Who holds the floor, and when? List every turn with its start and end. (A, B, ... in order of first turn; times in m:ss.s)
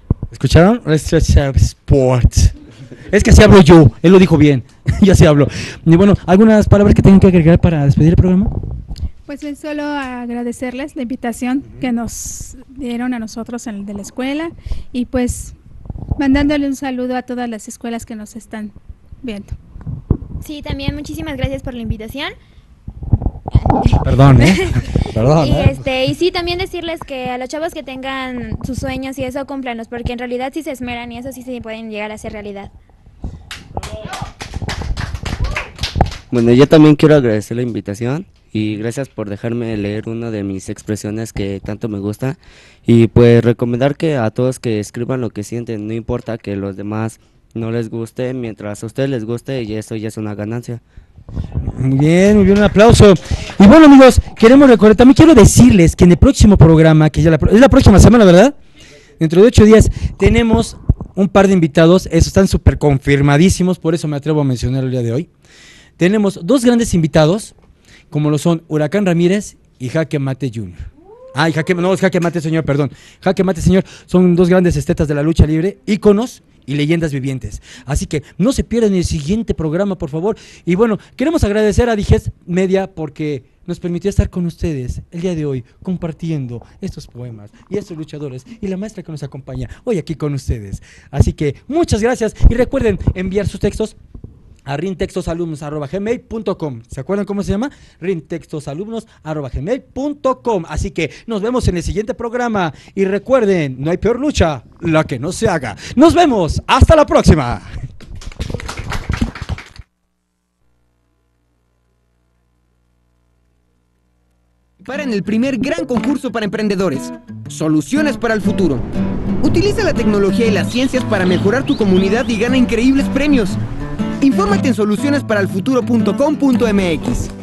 0:00.3-0:08.5 A
0:09.3-0:15.6 B
0:16.2-0:19.6 B
0:20.4-0:22.4 C
0:23.9-0:32.7 C
0:24.0-0:25.9 A
0:36.3-0:50.8 D
0:51.6-0:58.6 A
0:59.2-1:05.3 A
1:06.0-1:07.6 A
1:08.1-1:34.0 A
1:34.7-1:47.7 A
1:54.8-1:58.9 E
1:59.4-2:03.6 E
2:04.2-2:07.3 E